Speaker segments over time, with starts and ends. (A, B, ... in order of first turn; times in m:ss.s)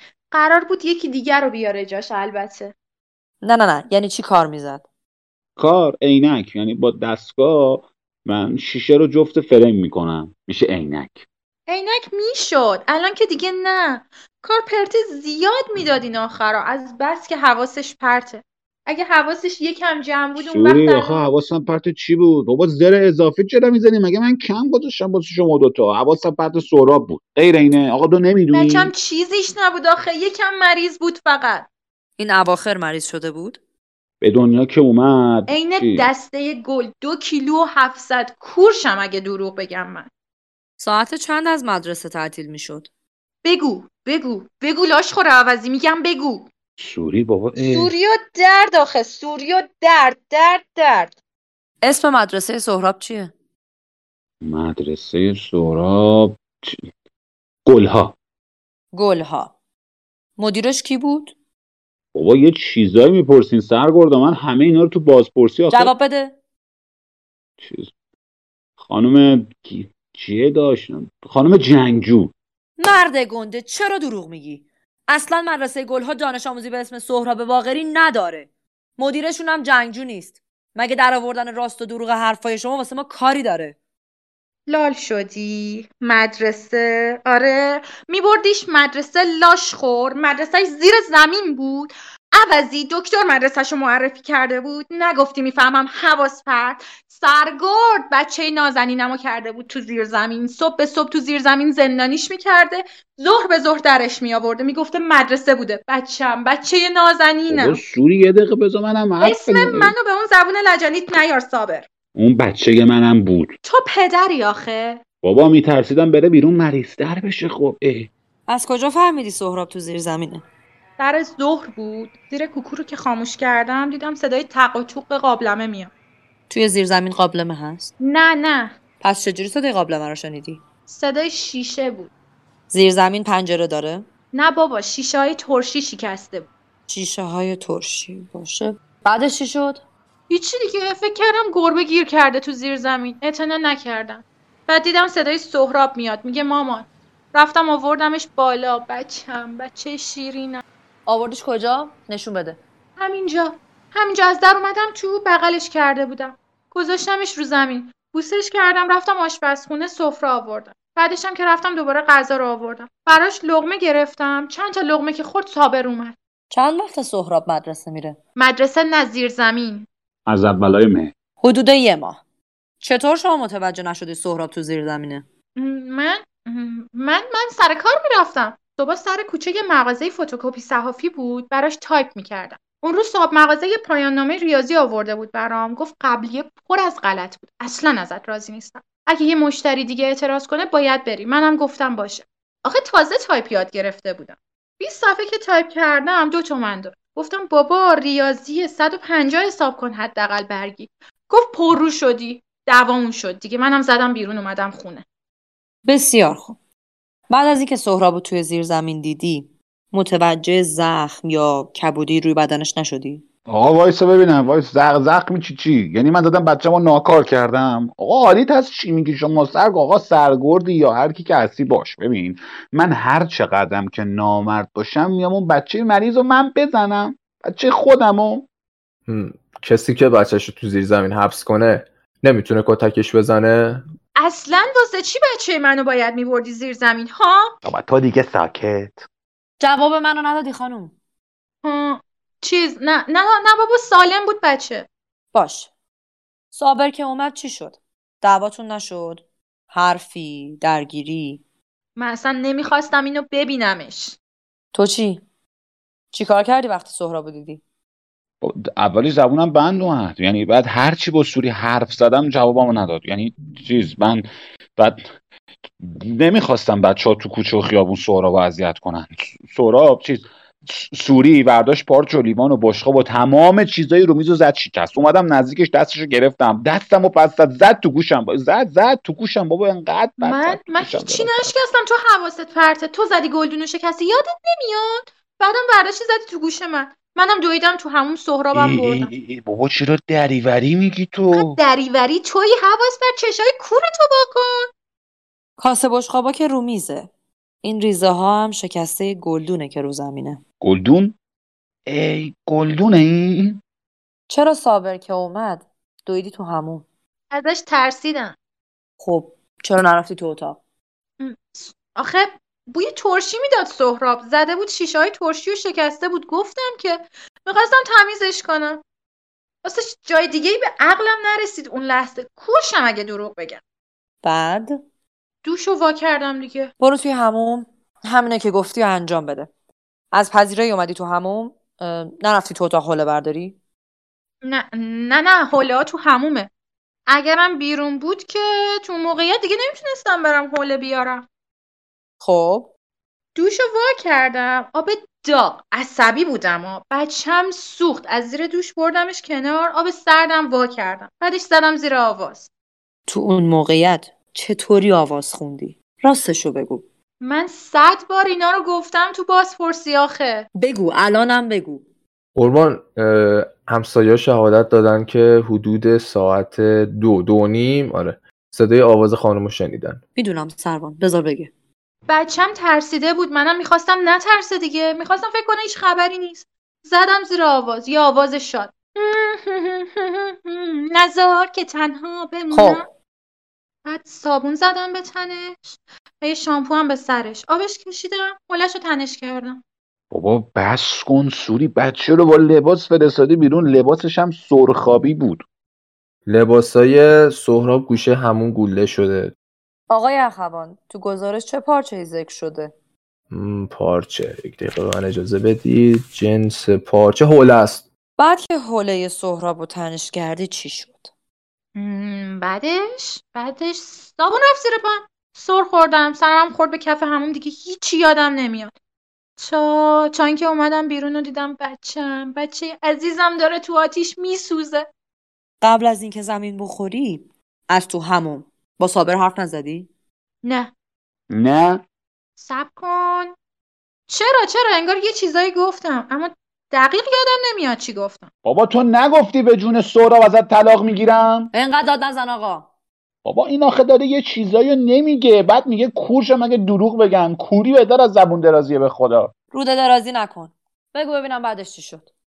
0:00.3-0:02.7 A
0:03.4-0:04.8 B
0:05.6-0:11.3 C
0:11.7-0:21.2 A
0:20.4-0:28.9 C
0:28.5-0:31.7 A
0:32.2-0:33.6 B
0:34.2-0:36.1 C
0:35.5-0:40.1 A
0:40.8-0:42.9 B
0:43.4-0:46.5 A
0:46.8-0:47.9 C
0:47.7-0:51.2 A
0:51.8-0:53.3 B
0:54.4-0:56.8 C
0:57.7-0:58.2 C
0:58.9-0:59.5 B
1:00.4-1:01.3 B
1:02.1-1:05.9 C
1:05.7-1:06.4 B
1:07.6-1:07.9 C
1:08.8-1:12.3 C
1:12.8-1:23.8 B
1:24.7-1:47.8 A
1:47.5-1:49.9 C
1:49.2-1:51.9 A
1:52.2-1:53.6 C
1:53.6-1:55.0 A
1:55.2-1:58.1 C
1:58.5-2:00.4 B
2:01.0-2:05.9 A
2:06.5-2:07.9 B
2:08.0-2:08.8 A
2:09.0-2:10.6 B
2:10.9-2:12.1 A
2:12.7-2:14.1 B
2:14.3-2:16.5 A
2:16.9-2:19.8 B
2:20.3-2:30.6 A
2:31.1-2:32.6 B
2:33.0-2:46.2 A
2:46.5-2:48.2 B
2:48.4-2:49.9 A
2:50.3-2:51.1 C
2:51.4-2:52.2 B
2:52.8-2:55.2 B
2:55.6-3:25.0 A
3:25.8-3:26.6 B
3:27.3-3:33.2 B
3:33.5-3:48.5 C
3:49.1-3:53.8 D
3:54.2-3:57.5 A
3:57.6-3:59.1 C
3:59.6-4:01.0 B
4:01.6-4:04.9 A
4:05.3-4:05.7 B
4:06.5-4:11.4 B
4:12.0-4:14.2 A
4:14.7-4:15.2 B
4:16.1-4:17.6 B
4:18.4-4:24.3 C
4:24.8-4:25.1 C
4:25.8-4:41.5 C
4:40.2-4:49.1 A
4:48.5-4:51.6 C
4:51.3-4:54.7 A
4:55.6-4:57.1 B
4:57.6-5:00.4 B
5:00.6-5:01.2 C
5:01.9-5:03.6 C
5:04.3-5:06.8 B
5:07.3-5:08.4 A
5:09.0-5:10.6 B
5:11.2-5:18.8 A
5:19.6-5:23.6 A
5:24.2-5:24.8 B
5:25.4-5:26.7 A
5:26.8-5:29.5 B
5:30.1-5:33.6 B
5:34.4-5:36.5 A
5:37.1-5:41.3 A
5:42.2-5:42.7 B
5:43.4-5:52.5 A
5:53.1-5:56.8 B
5:57.2-6:00.5 A
6:00.6-6:01.8 B
6:02.4-6:10.0 D
6:10.2-6:11.5 B
6:12.1-6:22.8 A
6:22.5-6:22.8 B
6:23.9-6:29.6 A
6:30.1-6:35.4 C
6:36.3-6:39.3 D
6:39.9-6:42.7 B
6:43.3-6:47.9 D
6:48.2-6:51.1 B
6:51.8-6:58.7 A
6:59.4-7:04.9 A
7:05.6-7:09.9 B
7:10.4-7:10.7 A
7:11.3-7:11.8 C
7:12.4-7:13.4 A
7:14.1-7:18.3 A
7:18.4-7:21.5 C
7:21.5-7:22.7 B
7:23.2-7:29.3 C
7:29.5-7:32.1 B